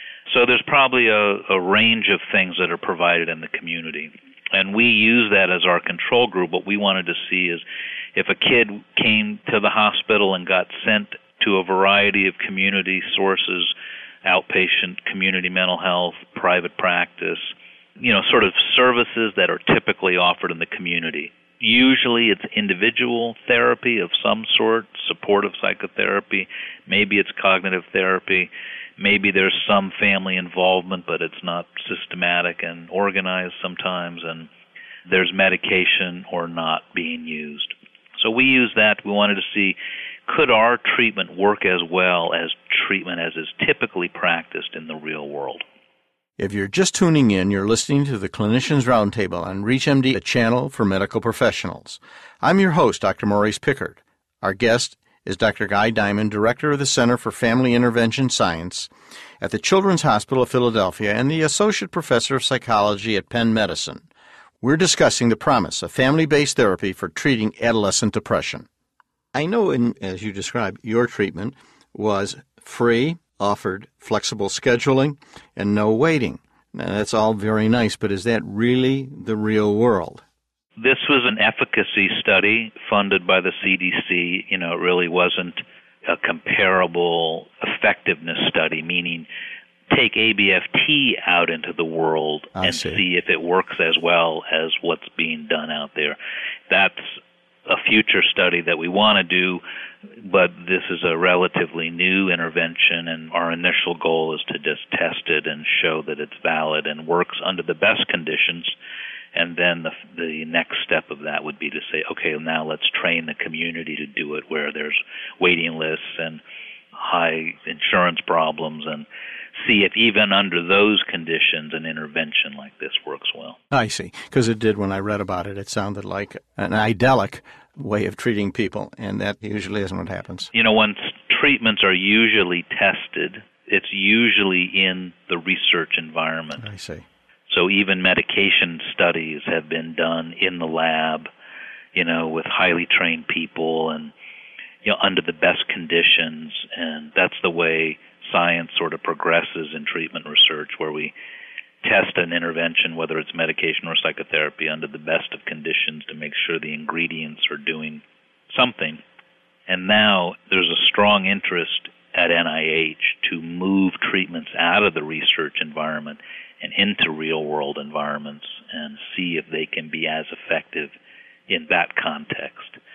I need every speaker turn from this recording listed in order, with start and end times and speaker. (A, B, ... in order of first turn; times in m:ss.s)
0:00.3-0:07.6 A
0:08.2-0:13.7 A
0:14.2-0:34.5 A
0:35.1-0:45.6 A
0:46.4-1:04.1 B
1:04.6-1:08.7 B
1:09.3-1:20.2 B
1:20.8-1:29.3 A
1:29.9-1:36.2 A
1:32.6-1:33.0 B
1:36.7-1:39.6 A
1:40.2-1:48.8 A
1:49.3-1:56.4 A
1:57.0-2:03.6 A
2:03.7-2:10.5 B
2:10.5-2:16.6 A
2:16.6-2:17.0 B
2:17.5-2:21.3 A
2:22.0-2:24.1 A
2:24.8-2:31.1 A
2:31.8-2:39.0 A
2:39.7-2:51.0 A
2:51.5-2:52.8 A